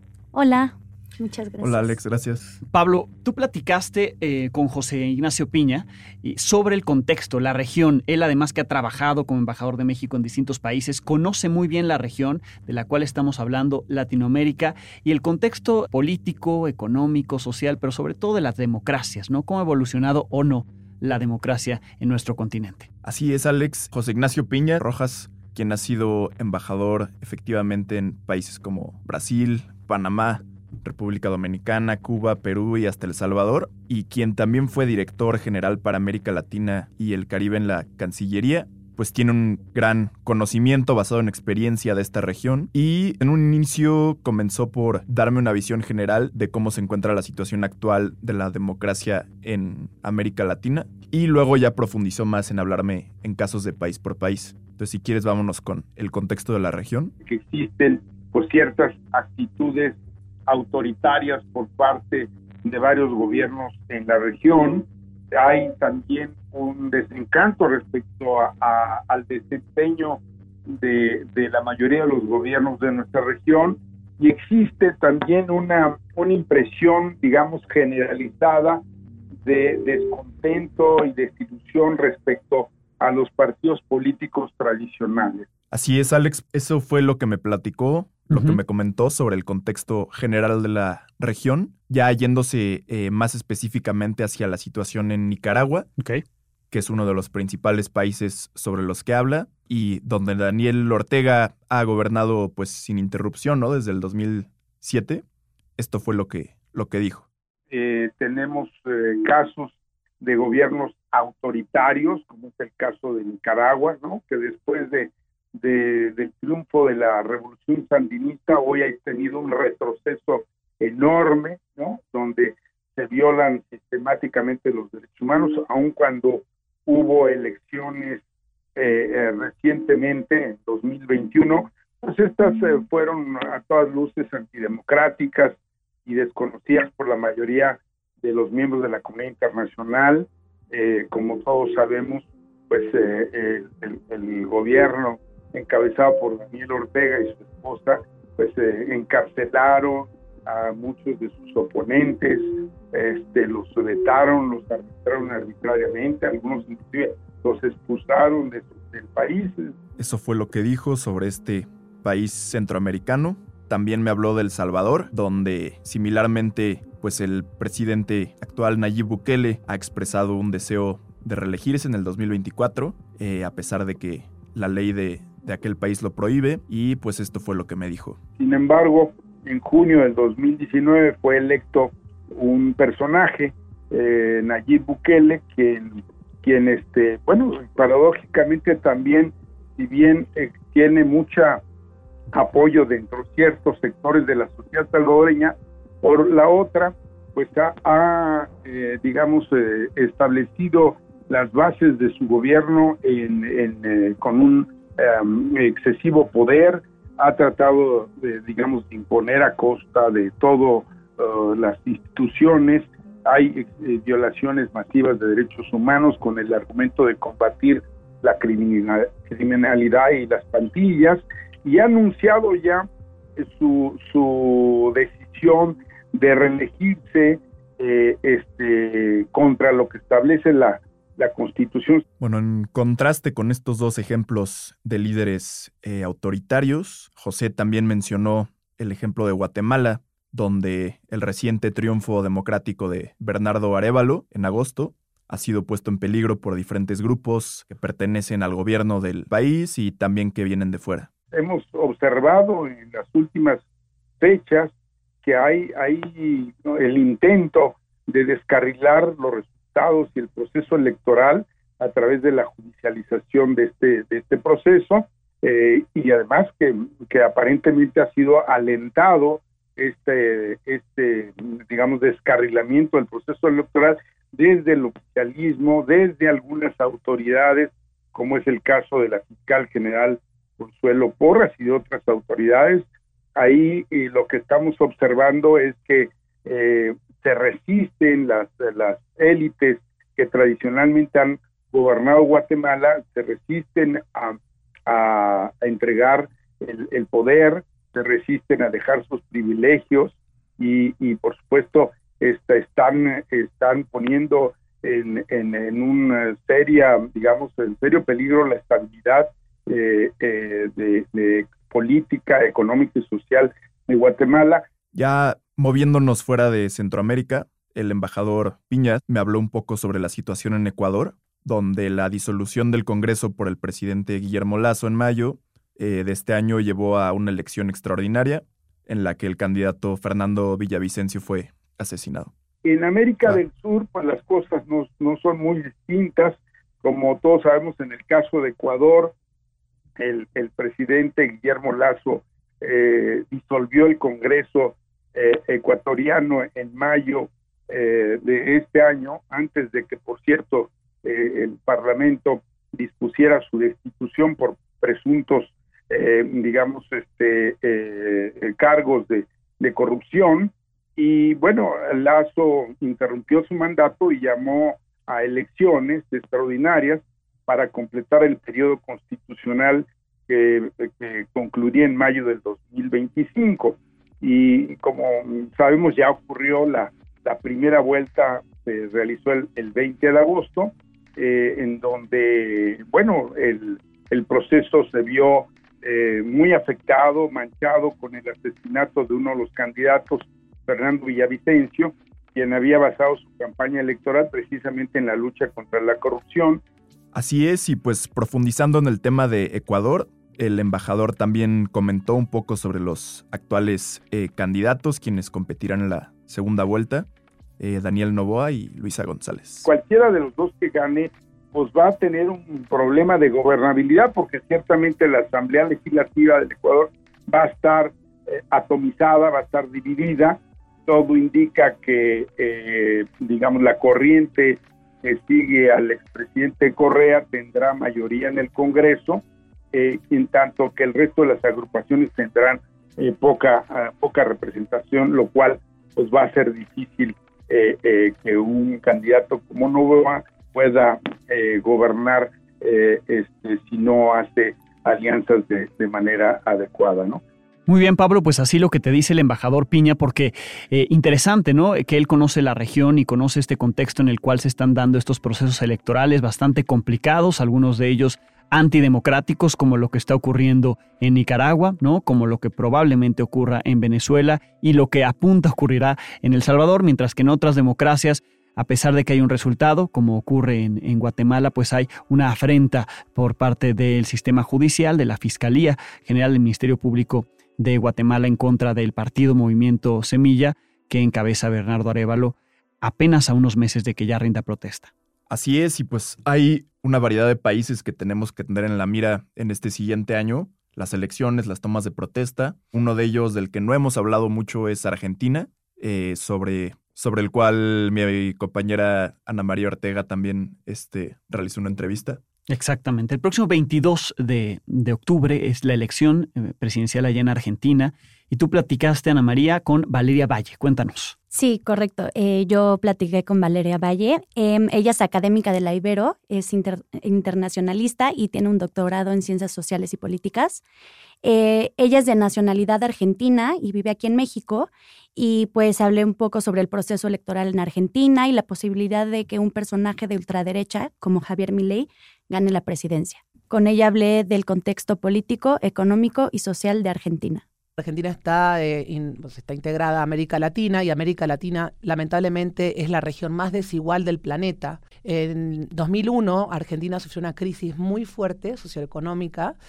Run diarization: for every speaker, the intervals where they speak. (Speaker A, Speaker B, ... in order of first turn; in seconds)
Speaker A: 0.3-2.0, 511.3-520.6, 521.2-537.4
Speaker B: 1.6-2.6, 23.0-57.1, 85.7-95.9, 96.7-105.2, 105.8-107.3, 160.0-178.2, 232.2-251.1, 314.9-332.3, 397.1-407.1, 407.6-409.7, 485.3-502.2
Speaker C: 2.7-22.9, 88.3-88.6, 447.7-484.9, 502.5-511.1
Speaker D: 57.2-78.8, 79.4-85.5, 107.7-128.2, 128.8-159.8, 178.4-191.6, 192.3-232.0, 251.3-253.6, 254.2-254.7, 255.2-314.6, 332.6-339.1, 340.0-396.6, 409.6-429.2, 429.7-447.2
Speaker E: 537.8-549.6